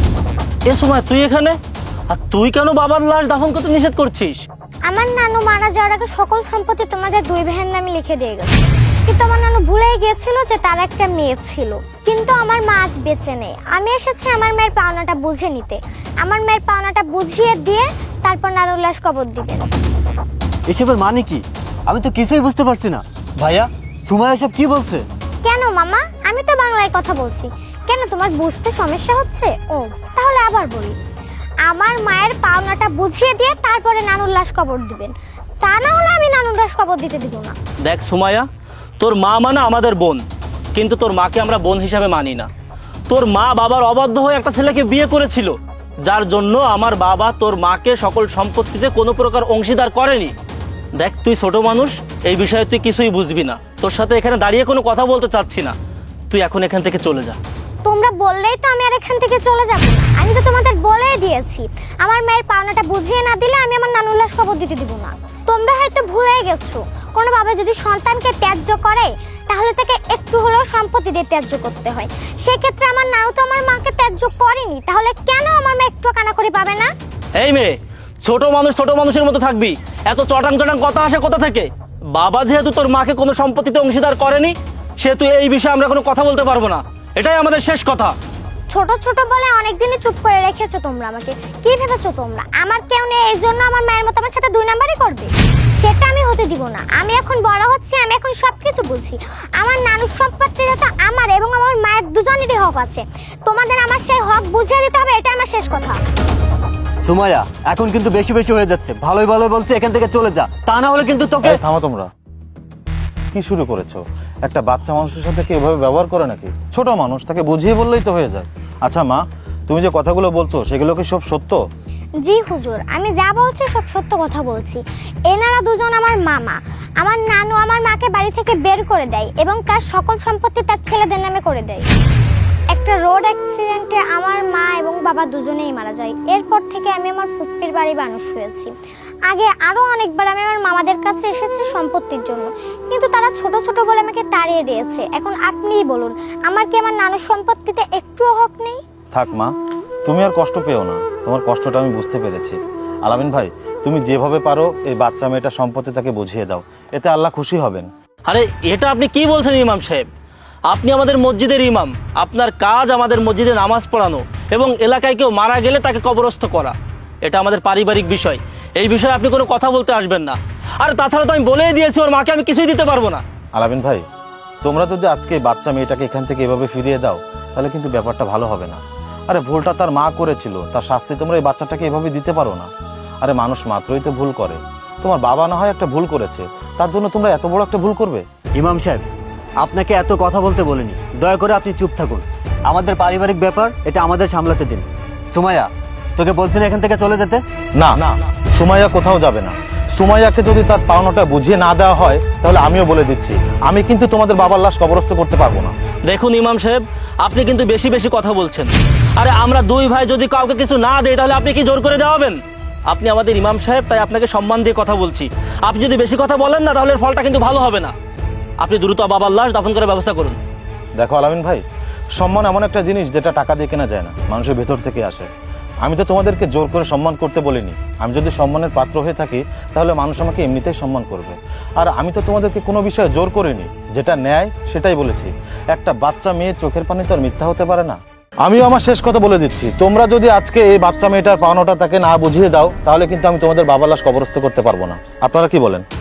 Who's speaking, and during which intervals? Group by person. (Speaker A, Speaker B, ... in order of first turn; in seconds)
Speaker A: 0.7-1.6, 2.1-4.4, 37.9-38.5, 39.0-40.2, 40.7-42.5, 43.1-45.5, 46.0-50.3, 51.0-55.7, 56.3-57.4, 77.4-88.1, 158.3-160.1, 160.7-173.2, 206.1-212.4, 212.9-217.9, 218.6-220.4
Speaker B: 4.9-19.7, 25.4-30.9, 31.7-37.5, 57.8-76.9, 88.7-106.0, 122.2-131.9, 132.7-138.7, 139.3-148.8
Speaker C: 20.7-25.1, 107.0-111.6, 188.6-189.0, 189.6-197.4
Speaker D: 111.4-112.1, 113.3-121.6, 149.1-149.5, 150.1-157.9, 173.6-174.1, 174.6-182.7, 183.2-188.2, 197.8-205.7, 221.0-221.6, 222.2-225.3, 225.8-245.8